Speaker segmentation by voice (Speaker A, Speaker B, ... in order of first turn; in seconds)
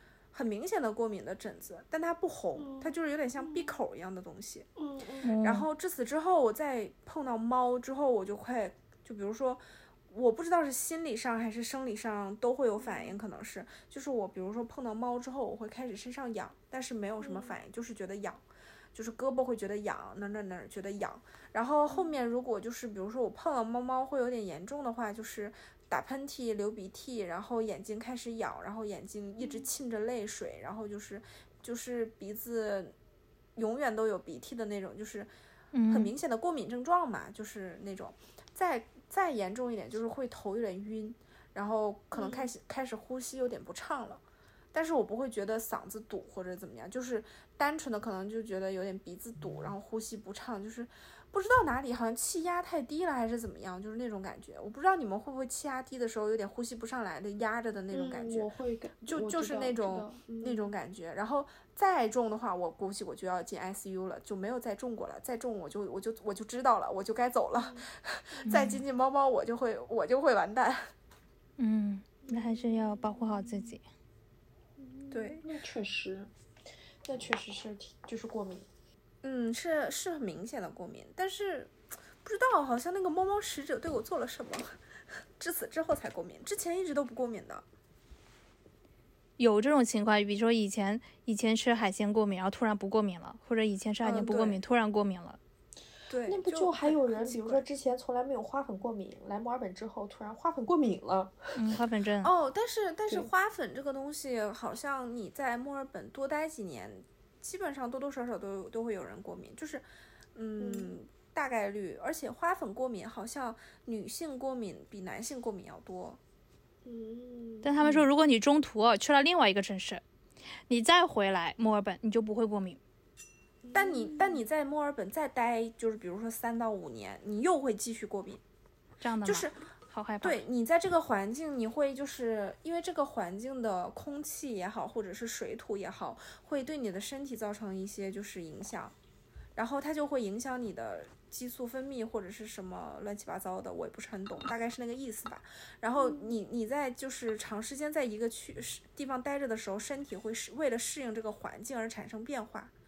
Speaker A: 0.3-4.7, 5.4-18.4, 18.9-32.9, 33.6-35.3, 35.9-44.2, 44.7-58.5, 59.0-70.8, 75.1-75.5, 79.2-84.8, 85.4-87.6, 94.0-94.6, 96.1-97.7, 102.2-116.2, 123.8-128.4, 129.2-129.6, 130.2-139.0, 139.6-152.7
Speaker B: 2.6-2.9, 3.4-3.7, 4.8-5.3, 12.8-13.2, 17.2-17.6, 21.9-22.2, 29.4-29.7, 42.1-42.5, 57.9-60.7, 67.6-68.6, 72.3-73.7, 74.8-76.3, 77.0-78.7, 96.3-101.3, 110.6-111.0, 116.8-118.1, 123.6-124.4, 146.0-146.3
Speaker C: 5.2-5.7, 35.7-36.1, 68.5-68.8, 71.6-73.8, 89.4-95.4, 101.5-102.3, 117.6-120.0, 120.7-122.8, 129.0-130.4